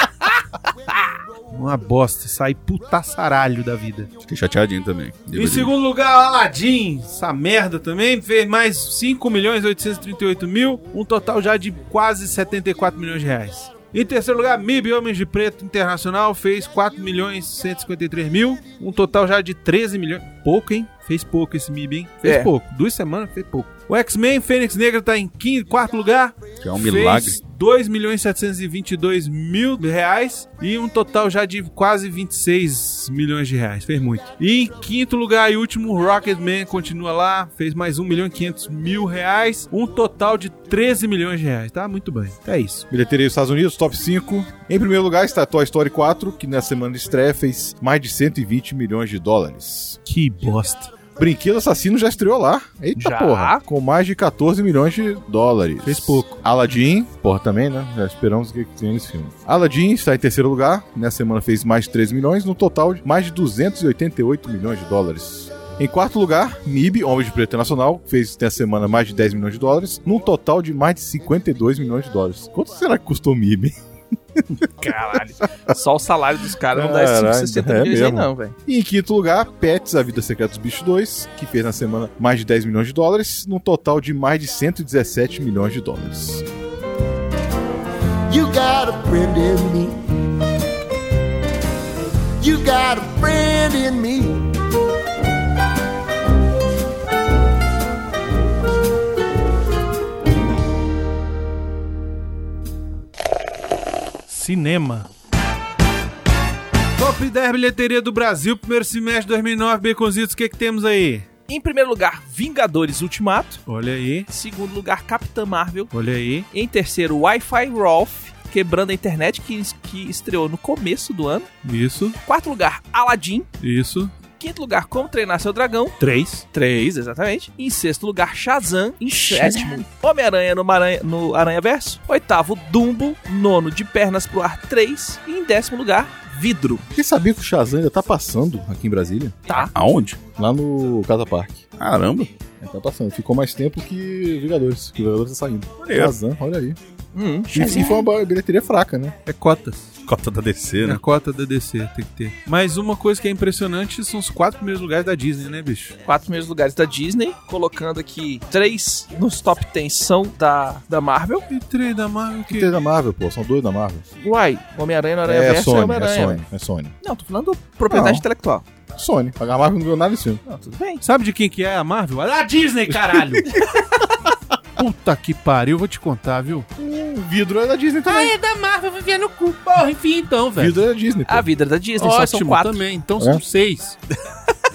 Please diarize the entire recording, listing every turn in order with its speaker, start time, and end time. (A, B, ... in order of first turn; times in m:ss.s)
0:01.5-0:04.1 A
0:04.2-0:05.7 B
0:05.3-0:42.8 A
0:22.2-0:22.5 C
0:26.6-0:27.4 B
0:42.9-0:50.0 D
0:50.0-0:50.9 A
0:51.2-1:13.7 D
0:53.0-0:53.6 C
0:55.8-0:56.4 A
1:14.3-1:14.6 D
1:14.8-1:18.5 C
1:16.7-1:26.4 D
1:28.3-1:30.0 E
1:32.4-1:34.4 E
1:44.3-1:45.1 A
1:46.9-1:51.3 A
1:51.5-1:53.6 C
1:53.7-1:54.3 A
1:54.3-1:55.9 C
1:55.9-1:56.5 A
1:56.5-2:01.5 C
2:01.6-2:02.2 A
2:02.2-2:03.5 C
2:03.6-2:04.1 A
2:04.4-2:06.0 C
2:06.0-2:06.4 A
2:06.5-2:16.8 C
2:09.3-2:09.8 D
2:16.9-2:19.3 D
2:19.7-2:20.2 B
2:20.4-2:21.6 D
2:21.8-2:22.3 B
2:22.6-2:26.8 D
2:25.8-2:26.1 B
2:27.1-2:28.0 C
2:27.5-2:29.2 D
2:27.5-2:27.9 B
2:29.2-2:29.8 A
2:30.0-2:31.0 B
2:30.8-2:35.9 A
2:36.0-2:41.4 C
2:41.5-2:42.7 A
2:42.5-2:44.0 D
2:44.2-2:46.4 C
2:45.2-2:46.9 D
2:47.0-2:48.6 C
2:47.9-2:48.2 D
2:48.9-2:50.4 D
2:50.4-2:51.0 C
2:51.0-2:53.5 A
2:54.8-2:56.7 A
2:56.8-2:58.4 D
2:58.1-3:00.8 A
3:00.6-3:01.5 D
3:01.3-3:02.8 C
3:02.0-3:04.0 A
3:03.2-3:03.4 D